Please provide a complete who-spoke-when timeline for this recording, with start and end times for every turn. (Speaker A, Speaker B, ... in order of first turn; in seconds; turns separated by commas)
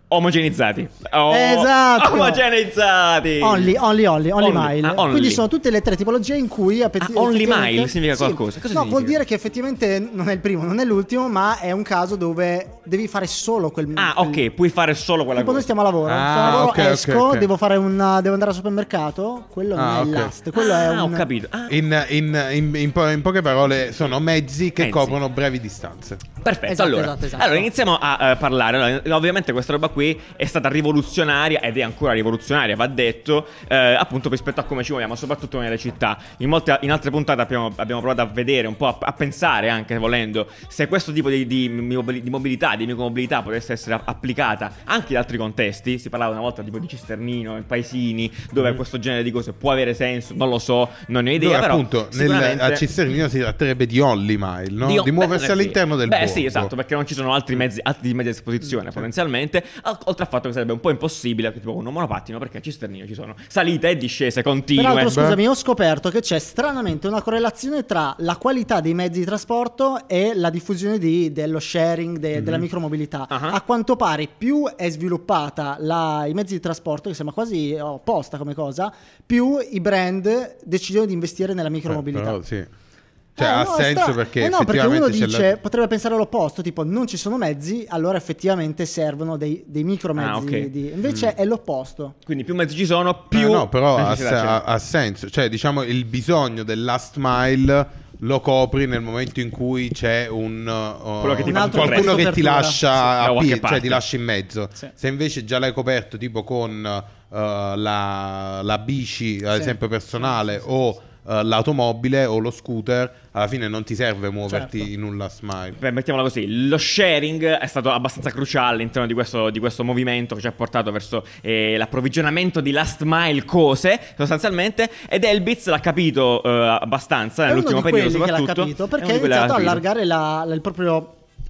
Speaker A: 0.1-3.8, Speaker B: 1.3-2.4, Speaker B: 3.4-14.4, Speaker A: 4.3-5.4, Speaker A: 7.0-9.2, Speaker A: 13.9-15.7, Speaker B: 15.3-21.3, Speaker C: 16.1-17.5, Speaker A: 16.4-16.8, Speaker C: 19.7-20.3, Speaker A: 20.5-21.8, Speaker C: 21.7-26.2, Speaker A: 24.8-25.2, Speaker A: 26.4-52.9, Speaker B: 26.7-27.7, Speaker C: 51.4-56.7, Speaker A: 54.8-65.3, Speaker B: 64.7-82.4, Speaker C: 65.1-65.4, Speaker C: 72.3-72.7, Speaker A: 73.3-73.6, Speaker C: 81.9-82.7, Speaker C: 83.3-85.5, Speaker B: 83.4-92.2, Speaker A: 90.1-90.7, Speaker C: 91.0-91.3, Speaker A: 92.2-94.6, Speaker C: 93.3-115.8, Speaker A: 101.2-102.2, Speaker B: 101.4-102.8, Speaker A: 102.9-104.0, Speaker B: 109.5-109.8, Speaker B: 114.5-114.9, Speaker A: 115.8-129.8, Speaker B: 127.5-131.1